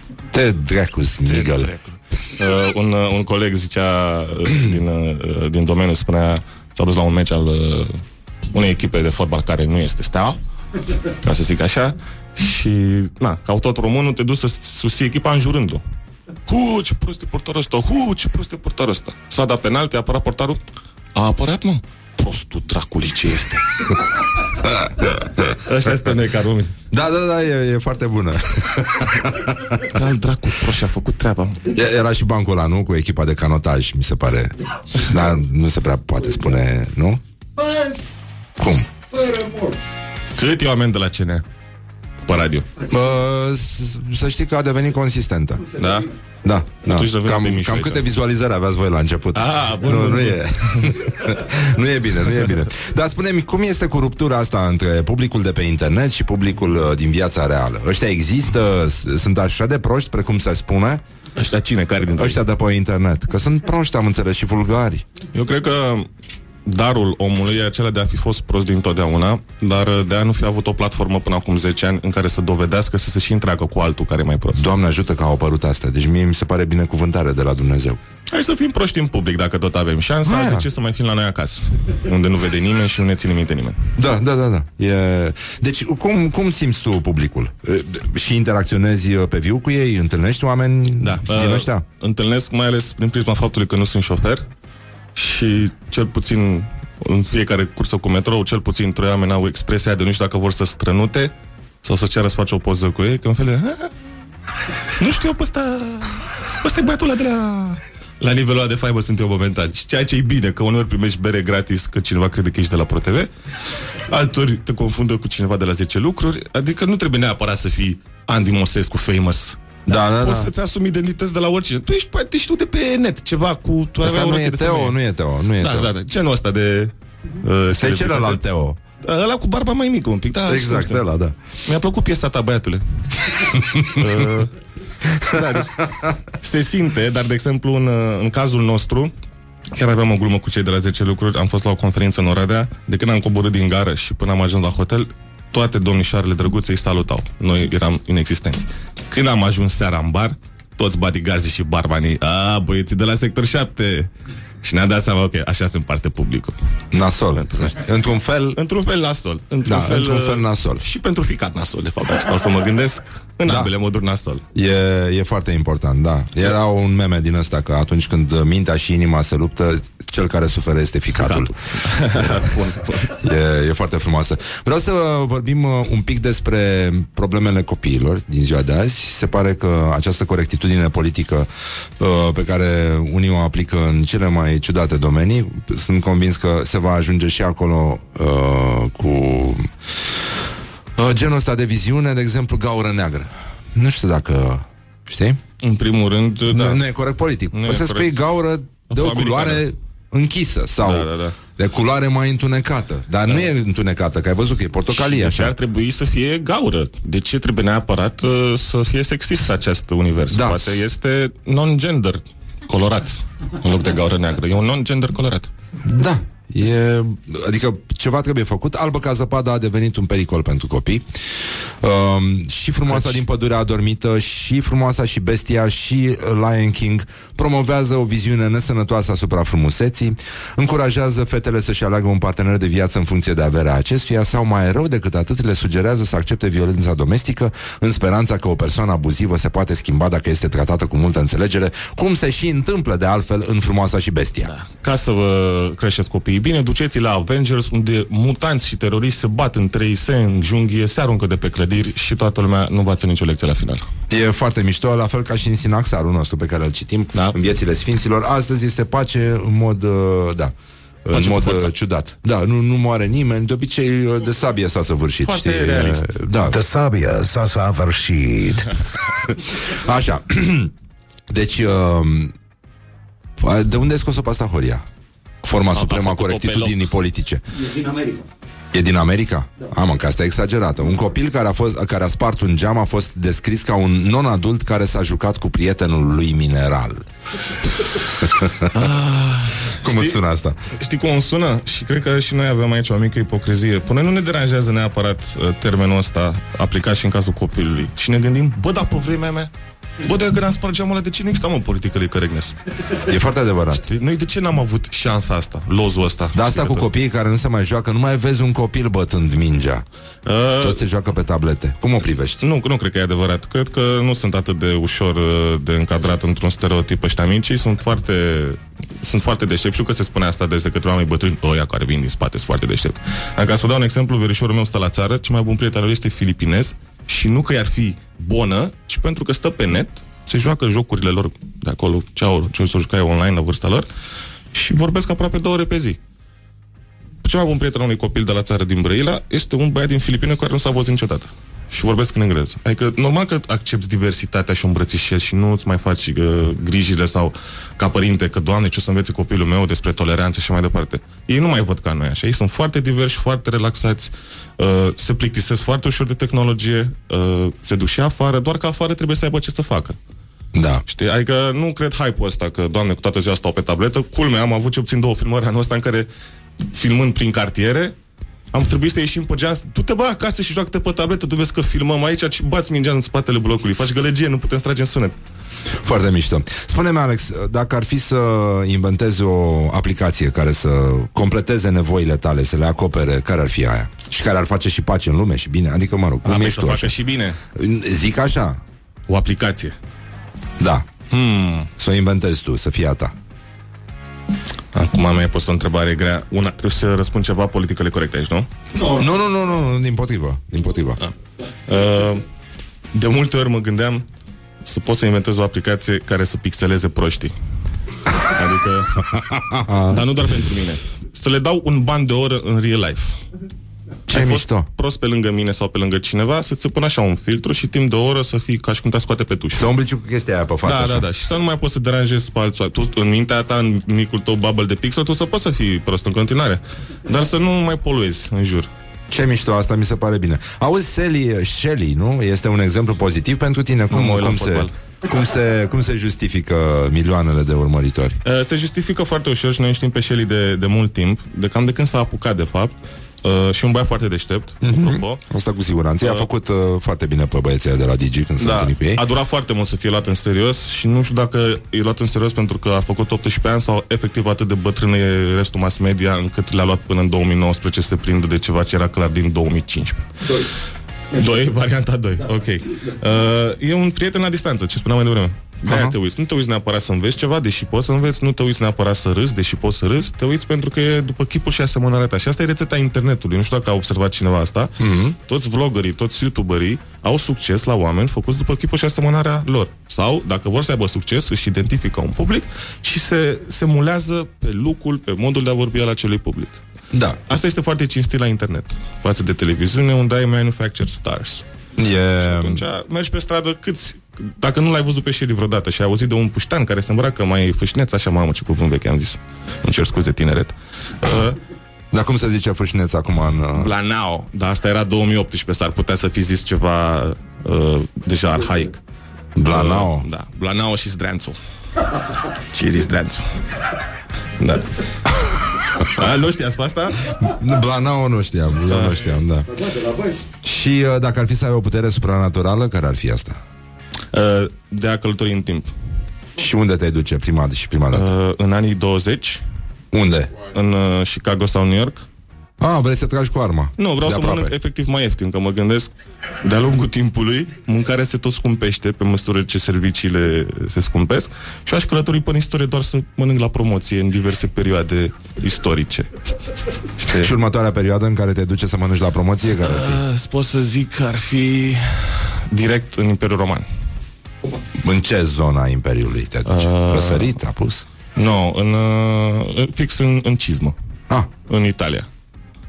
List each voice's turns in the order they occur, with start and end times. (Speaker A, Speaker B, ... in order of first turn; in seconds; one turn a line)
Speaker A: 0.3-1.7
Speaker B: 1.3-8.0
Speaker B: 8.5-10.4
Speaker B: 11.2-15.8
Speaker B: 16.5-20.6
Speaker B: 21.1-24.0
Speaker A: 24.6-25.6
Speaker B: 25.4-26.7
Speaker A: 26.9-29.9
Speaker B: 29.9-31.6
Speaker A: 31.7-37.2
Speaker A: 38.6-38.9
Speaker B: 40.4-41.5
Speaker B: 42.2-42.7
Speaker A: 42.9-45.7
Speaker B: 45.8-46.1
Speaker A: 46.4-61.0
Speaker B: 46.9-48.0
Speaker B: 49.3-50.9
Speaker B: 61.4-62.4
Speaker A: 62.1-65.0
Speaker B: 65.3-66.1
Speaker B: 66.7-74.7
Speaker A: 74.5-78.0
Speaker B: 78.3-83.8
Speaker A: 80.2-80.7
Speaker A: 84.0-91.8
Speaker B: 91.0-94.5
Speaker B: 95.2-101.3
Speaker B: 101.8-103.9
Speaker B: 105.0-113.3
Speaker B: 114.1-125.0
Speaker A: 119.9-120.5
Speaker A: 124.0-125.9
Speaker B: 125.6-128.4
Speaker A: 127.7-128.8
Speaker B: 129.0-131.0
Speaker A: 130.5-131.3
Speaker B: 131.7-134.5
Speaker A: 135.1-136.1
Speaker B: 135.3-135.9
Speaker B: 136.4-139.1
Speaker B: 139.7-154.1
Speaker B: 154.6-156.6
Speaker A: 156.9-158.6
Speaker B: 157.4-157.8
Speaker B: 158.6-164.4
Speaker A: 159.7-160.8
Speaker A: 163.4-163.7
Speaker A: 164.5-171.5
Speaker B: 171.2-173.1
Speaker A: 172.1-172.5
Speaker A: 173.1-181.5
Speaker A: 182.0-189.7
Speaker A: 191.0-195.4
Speaker B: 195.6-196.8
Speaker A: 196.5-205.5
Speaker B: 197.5-198.2
Speaker B: 198.9-199.7
Speaker B: 200.8-201.4
Speaker B: 204.9-215.5
Speaker A: 210.3-210.7
Speaker A: 215.8-221.1
Speaker A: 221.8-244.5
Speaker B: 222.9-223.2
Speaker B: 244.4-253.9
Speaker A: 254.1-260.5
Speaker A: 261.1-266.6
Speaker B: 261.1-261.7
Speaker B: 265.2-266.1
Speaker C: 266.5-268.7
Speaker A: 269.4-270.7
Speaker A: 271.3-272.3
Speaker A: 273.4-274.8
Speaker A: 275.4-277.4
Speaker B: 275.7-276.9
Speaker A: 278.7-287.1
Speaker A: 288.2-288.7
Speaker B: 288.7-290.2
Speaker A: 289.8-290.6
Speaker B: 290.7-299.5
Speaker B: 300.0-302.6
Speaker A: 303.1-303.9
Speaker B: 303.7-306.9
Speaker A: 306.3-309.9
Speaker B: 310.2-310.8
Speaker A: 310.6-312.4
Speaker B: 312.4-333.9
Speaker B: 334.5-336.0
Speaker B: 337.2-360.0
Speaker A: 360.5-360.8
Speaker B: 360.9-366.1
Speaker B: 366.7-367.9
Speaker B: 368.5-375.2
Speaker A: 375.8-386.9
Speaker B: 386.2-387.4
Speaker A: 387.6-388.6
Speaker B: 389.1-389.8
Speaker A: 390.6-390.9
Speaker B: 391.1-391.7
Speaker A: 391.8-393.1
Speaker B: 394.7-398.5
Speaker A: 398.8-401.0
Speaker B: 401.7-402.2
Speaker B: 402.9-404.1
Speaker B: 404.6-407.3
Speaker B: 408.2-409.1
Speaker A: 409.1-410.5
Speaker B: 409.9-413.2
Speaker A: 414.1-414.7
Speaker B: 414.1-419.7
Speaker A: 419.5-421.1
Speaker B: 420.6-428.7
Speaker A: 429.1-438.2
Speaker B: 433.9-434.7
Speaker B: 438.2-445.2
Speaker A: 444.6-449.0
Speaker B: 446.0-446.3
Speaker B: 448.4-460.5
Speaker B: 461.1-474.7
Speaker A: 465.7-466.0
Speaker A: 474.8-475.2
Speaker B: 475.3-486.6
Speaker A: 486.9-487.2
Speaker B: 487.3-491.4
Speaker A: 491.8-492.6
Speaker B: 492.2-501.4
Speaker A: 501.9-503.7
Speaker B: 503.6-508.8
Speaker A: 509.4-510.1
Speaker B: 509.5-511.4
Speaker B: 512.5-513.3
Speaker B: 514.4-517.0
Speaker A: 517.2-519.5
Speaker B: 518.7-519.2
Speaker A: 520.4-523.4
Speaker B: 524.1-525.7
Speaker A: 526.4-528.1
Speaker B: 527.9-529.4
Speaker A: 529.9-530.3
Speaker B: 530.5-532.0
Speaker A: 532.6-534.5
Speaker B: 533.8-546.1
Speaker B: 547.0-547.3
Speaker A: 547.1-550.0
Speaker B: 549.6-553.7
Speaker A: 554.8-557.9
Speaker B: 556.5-557.4
Speaker B: 558.2-560.8
Speaker B: 561.5-562.1